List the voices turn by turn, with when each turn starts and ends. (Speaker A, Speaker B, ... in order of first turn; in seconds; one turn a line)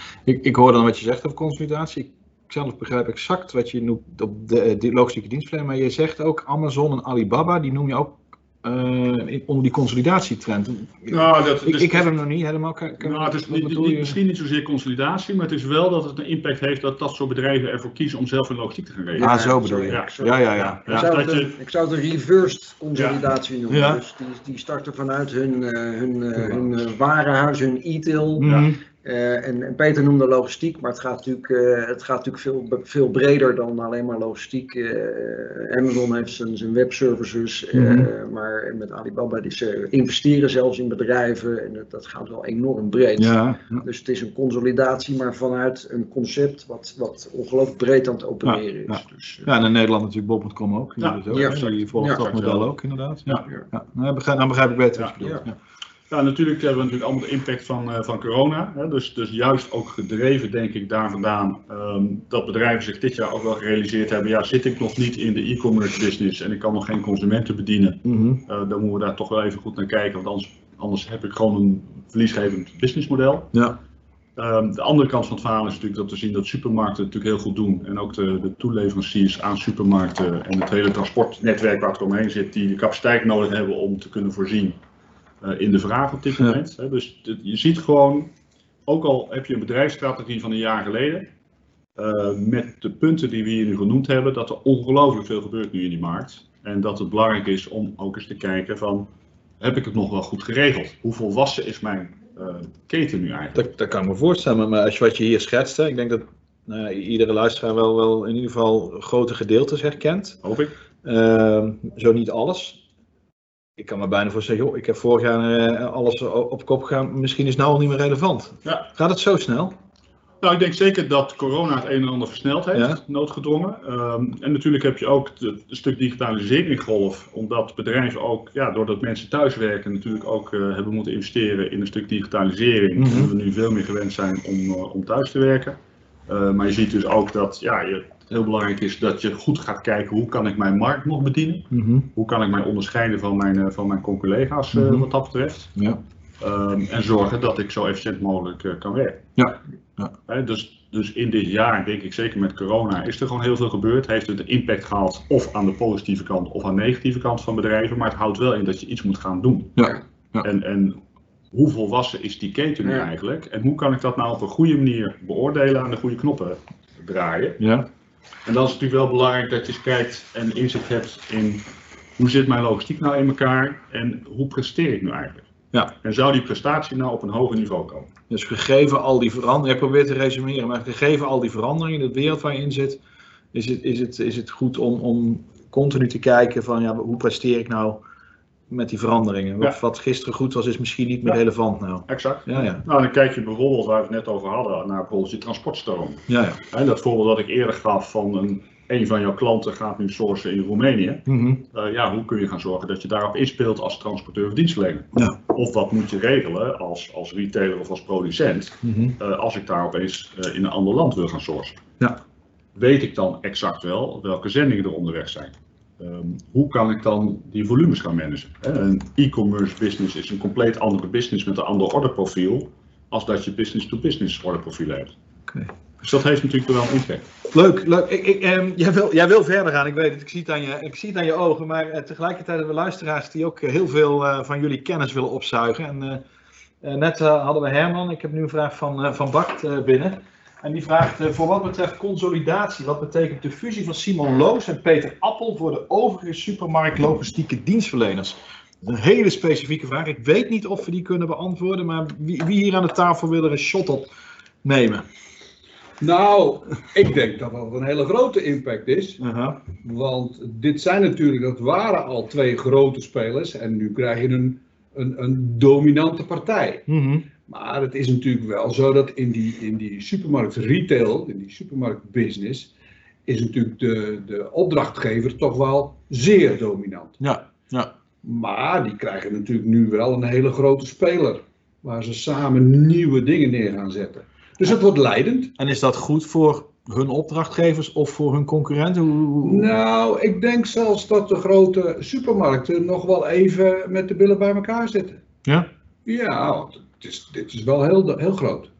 Speaker A: 0.3-14.2
Speaker B: 11.1-12.1
Speaker B: 13.0-21.6
Speaker C: 19.2-49.5
Speaker A: 19.2-21.1
Speaker A: 23.7-24.0
Speaker A: 28.4-28.8
Speaker B: 28.4-28.7
Speaker A: 37.7-38.1
Speaker A: 43.2-43.8
Speaker A: 48.5-55.6
Speaker B: 51.0-52.7
Speaker C: 51.3-52.2
Speaker B: 55.0-55.4
Speaker B: 56.1-73.6
Speaker A: 68.1-68.4
Speaker A: 73.5-73.8
Speaker B: 74.4-84.8
Speaker B: 85.4-88.3
Speaker B: 88.9-91.3
Speaker B: 92.0-99.1
Speaker B: 99.6-103.6
Speaker A: 103.5-110.4
Speaker B: 110.4-110.7
Speaker A: 111.0-112.8
Speaker A: 113.8-119.7
Speaker B: 120.4-145.8
Speaker A: 122.7-123.0
Speaker A: 133.0-133.3
Speaker A: 141.7-142.1
Speaker A: 144.7-145.1
Speaker B: 146.4-149.3
Speaker A: 149.4-150.1
Speaker B: 150.3-161.0
Speaker A: 159.8-160.5
Speaker B: 161.5-167.6
Speaker A: 167.6-167.9
Speaker B: 168.4-171.7
Speaker B: 172.2-178.1
Speaker A: 178.3-183.0
Speaker A: 183.5-188.0
Speaker A: 188.7-192.8
Speaker B: 192.1-211.8
Speaker A: 196.3-196.6
Speaker A: 201.3-201.6
Speaker A: 208.8-209.2
Speaker B: 212.8-225.2
Speaker B: 226.0-227.3
Speaker A: 227.5-236.2
Speaker A: 236.8-254.1
Speaker A: 254.6-255.1
Speaker D: 256.0-266.9
Speaker A: 259.2-259.6
Speaker A: 266.9-267.3
Speaker D: 267.4-272.7
Speaker D: 273.3-277.2
Speaker A: 277.2-277.9
Speaker D: 278.2-285.6
Speaker A: 285.6-289.7
Speaker D: 289.4-295.2
Speaker D: 296.1-298.7